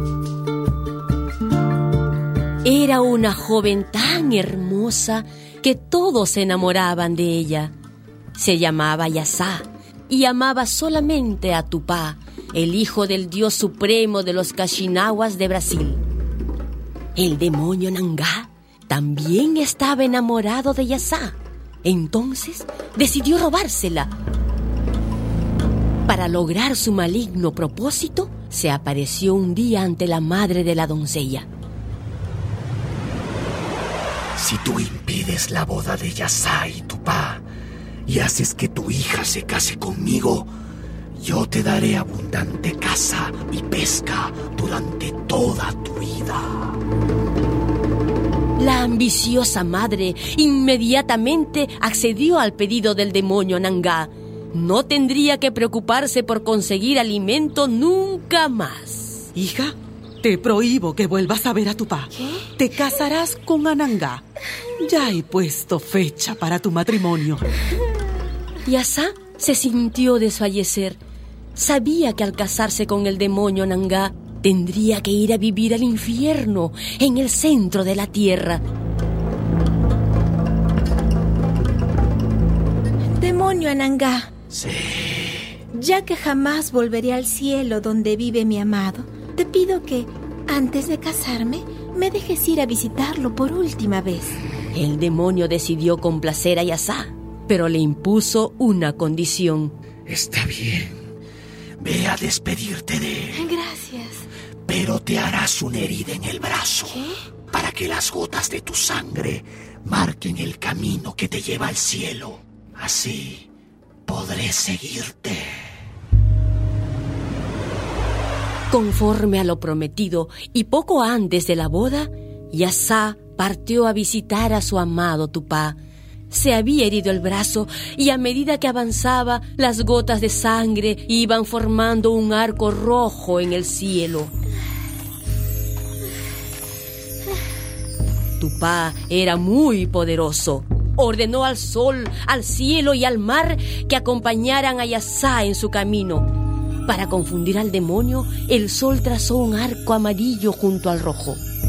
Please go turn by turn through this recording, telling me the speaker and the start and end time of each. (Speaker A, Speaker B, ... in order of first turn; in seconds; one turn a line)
Speaker A: 2.6-7.7
Speaker A: 8.3-16.0
Speaker A: 17.2-24.1
Speaker A: 26.1-31.5
Speaker B: 34.4-37.5
Speaker B: 38.1-40.5
Speaker B: 41.1-46.8
Speaker A: 48.6-59.3
Speaker C: 59.4-64.2
Speaker D: 62.2-62.5
Speaker C: 64.8-67.5
Speaker A: 68.6-71.0
Speaker A: 71.5-78.6
Speaker D: 83.2-84.3
Speaker B: 84.5-85.5
Speaker D: 85.7-94.4
Speaker A: 94.7-99.7
Speaker B: 100.1-101.0
Speaker B: 101.8-103.5
Speaker D: 103.4-104.2
Speaker B: 104.7-113.5
Speaker B: 114.1-115.7
Speaker A: 118.7-125.8
Speaker A: 126.3-134.3
Speaker A: 138.4-146.3
Speaker A: 146.9-151.4